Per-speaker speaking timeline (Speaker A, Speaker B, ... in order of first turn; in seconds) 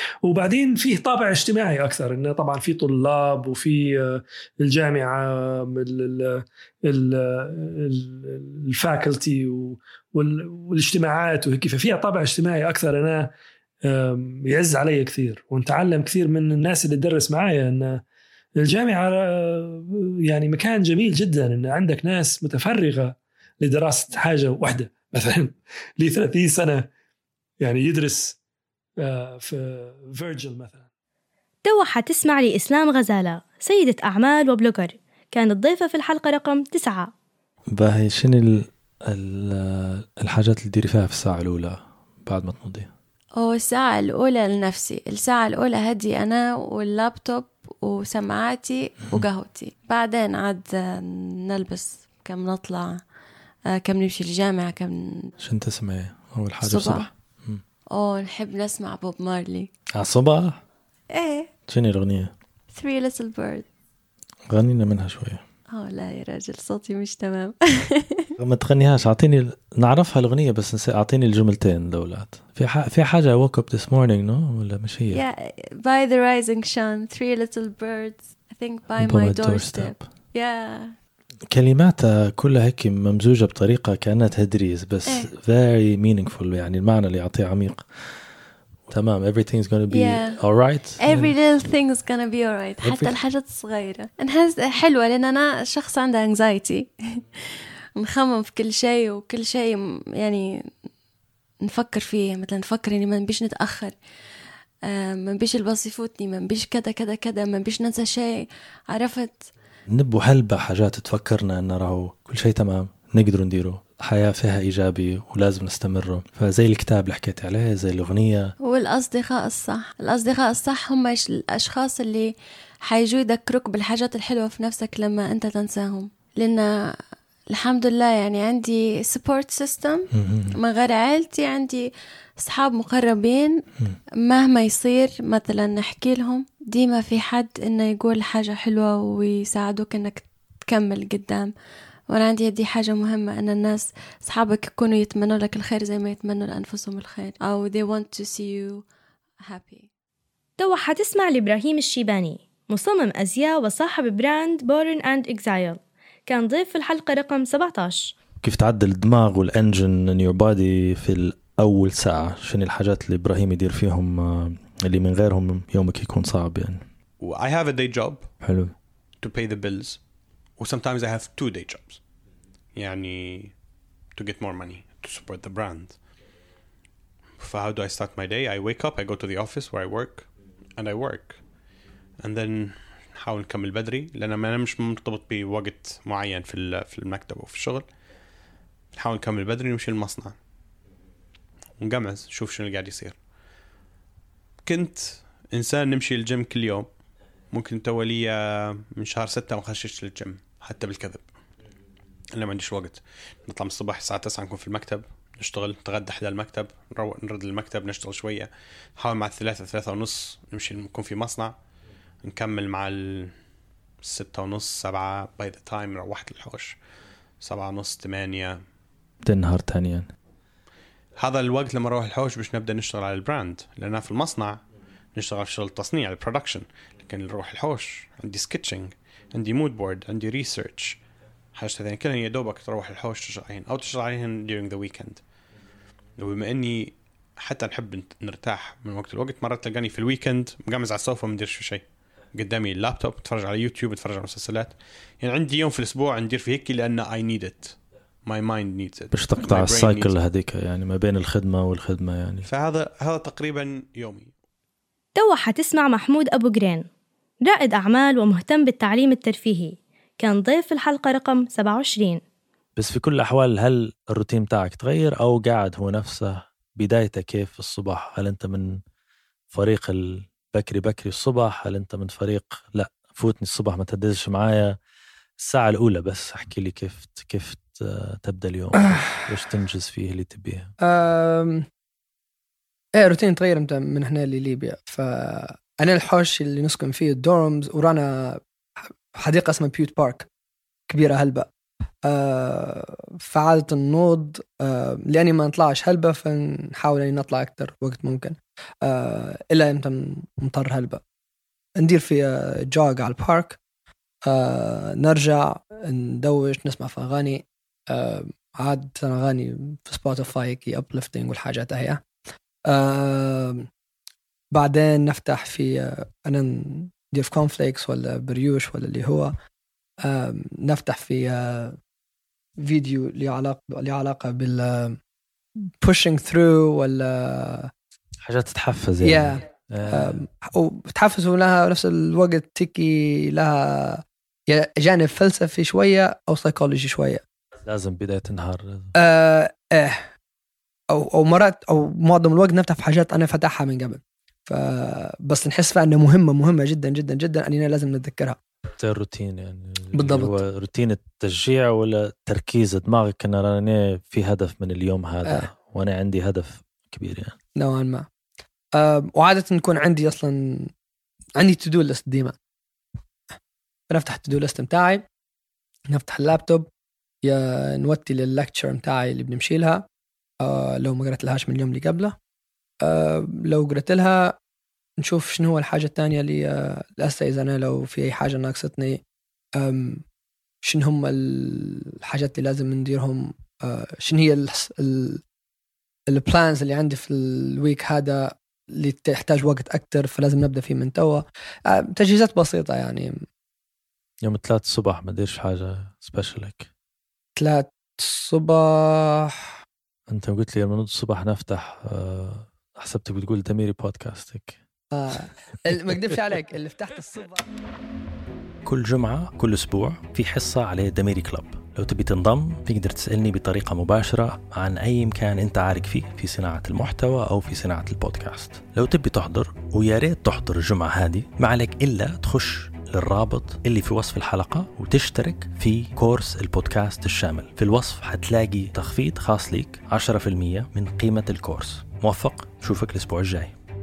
Speaker A: 0.2-13.3, 13.8-18.0, 18.6-26.9, 27.6-28.4, 29.0-30.8
Speaker B: 31.6-37.1, 150.6-158.1, 255.1-256.9, 257.4-262.2
Speaker C: 37.8-42.9, 55.4-57.6, 60.0-60.6, 61.7-62.3, 64.5-65.4, 68.4-75.2, 79.0-80.0, 81.5-87.8, 88.9-91.3, 92.8-93.2, 109.9-118.5, 130.2-130.5, 158.4-166.8, 168.4-168.7, 219.2-220.1, 249.1-252.4, 262.8-268.8, 269.5-274.7, 275.4-280.7, 328.2-330.2, 337.6-338.9, 348.8-357.4, 394.2-396.7, 400.1-404.6, 408.6-433.5
Speaker D: 43.4-53.0, 53.7-55.1, 56.6-57.1, 57.9-59.7, 61.1-61.5, 62.7-63.6, 65.7-68.3, 75.1-80.9, 89.9-90.4, 91.0-96.9, 98.0-100.4, 101.7-103.9, 104.9-109.4, 118.6-122.3, 122.8-126.7, 127.5-133.6, 134.2-141.5, 142.1-148.8, 149.4-149.9
Speaker E: 167.2-168.2, 169.2-170.0, 170.6-172.0, 172.7-173.5, 174.2-176.0, 177.4-180.2, 180.8-181.4, 182.2-187.9, 188.9-190.3, 191.8-193.2, 194.7-196.8, 197.5-201.2, 202.4-211.5, 212.2-213.3, 214.0-216.8, 217.4-218.6, 221.2-224.6, 225.2-231.0, 231.5-235.2, 236.2-241.8, 242.3-250.1, 252.4-254.3
Speaker F: 280.8-281.6, 282.9-288.4, 289.1-290.2, 290.9-291.5, 292.0-301.0, 301.8-303.6, 304.2-312.0, 312.7-313.7, 314.5-319.3, 320.0-321.8, 322.6-325.0, 325.8-327.7, 329.0-337.2, 338.9-340.1, 340.9-348.4, 349.9-350.4, 357.6-358.1, 358.8-360.7, 361.4-362.3, 363.9-365.0, 365.9-366.7, 367.2-369.8, 370.4-372.1, 372.8-374.4, 375.0-379.0, 379.6-380.0, 380.6-385.2, 386.1-393.2, 397.4-399.5, 404.9-407.4